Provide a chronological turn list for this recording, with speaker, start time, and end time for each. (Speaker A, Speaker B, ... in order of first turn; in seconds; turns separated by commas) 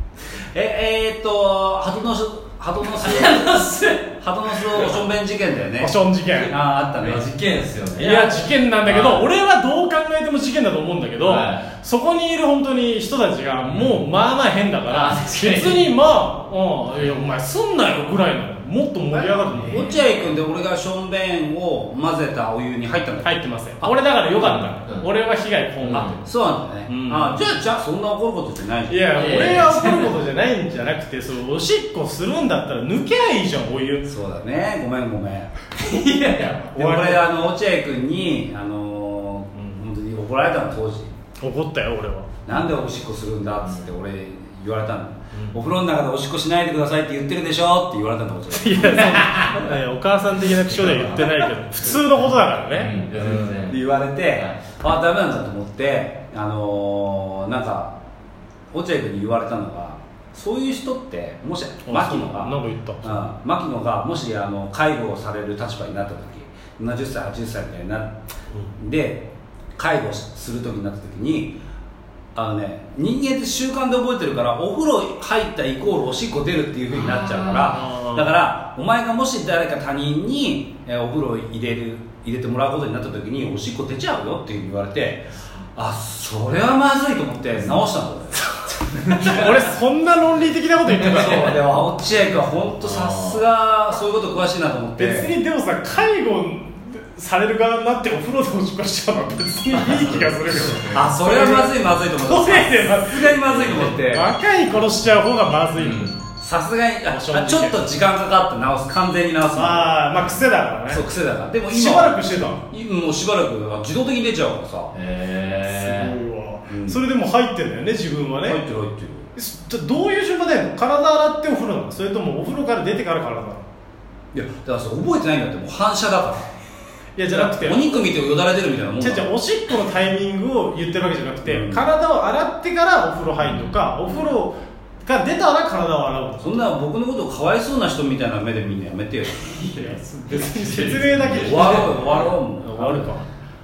Speaker A: 0.4-3.5, Speaker B: 2.8-5.0, Speaker A: 4.2-7.2, Speaker C: 5.8-6.5, Speaker B: 7.0-9.2, Speaker C: 8.0-19.9, Speaker B: 11.2-11.7, Speaker B: 13.6-14.0, Speaker B: 14.9-15.9, Speaker A: 19.1-23.9, Speaker B: 19.4-20.1, Speaker C: 23.2-26.3, Speaker B: 24.4-25.1, Speaker B: 25.8-26.2, Speaker A: 25.9-29.6, Speaker C: 26.9-27.5, Speaker C: 28.9-34.1, Speaker B: 29.1-30.1, Speaker A: 34.0-35.5, Speaker B: 35.8-36.7, Speaker C: 36.7-37.3, Speaker A: 36.7-41.1, Speaker C: 39.5-39.8, Speaker C: 41.4-42.3, Speaker A: 42.5-49.6, Speaker C: 48.5-53.6, Speaker B: 50.7-51.5, Speaker B: 52.7-54.6, Speaker A: 53.6-58.0, Speaker A: 58.7-68.2, Speaker C: 61.9-63.2, Speaker A: 68.8-71.6, Speaker A: 72.3-88.5, Speaker B: 76.9-77.9, Speaker C: 77.7-78.3, Speaker C: 88.3-91.7, Speaker B: 89.0-89.5, Speaker B: 90.9-91.6, Speaker A: 91.0-95.3, Speaker B: 92.8-93.4, Speaker C: 95.0-106.2, Speaker A: 100.9-104.3, Speaker B: 105.7-106.2, Speaker A: 106.4-110.3, Speaker C: 107.1-107.9, Speaker C: 109.5-111.0, Speaker A: 110.9-114.9, Speaker C: 111.7-112.6, Speaker B: 114.9-116.1, Speaker C: 115.7-118.6, Speaker A: 116.7-117.0, Speaker A: 118.4-119.3, Speaker C: 119.3-123.6, Speaker A: 124.3-126.5, Speaker C: 127.2-128.0, Speaker A: 127.3-129.3, Speaker C: 129.0-136.6, Speaker A: 131.4-131.9, Speaker B: 133.4-133.8, Speaker A: 136.4-139.8, Speaker B: 139.5-142.0, Speaker C: 139.7-143.3, Speaker A: 141.3-143.2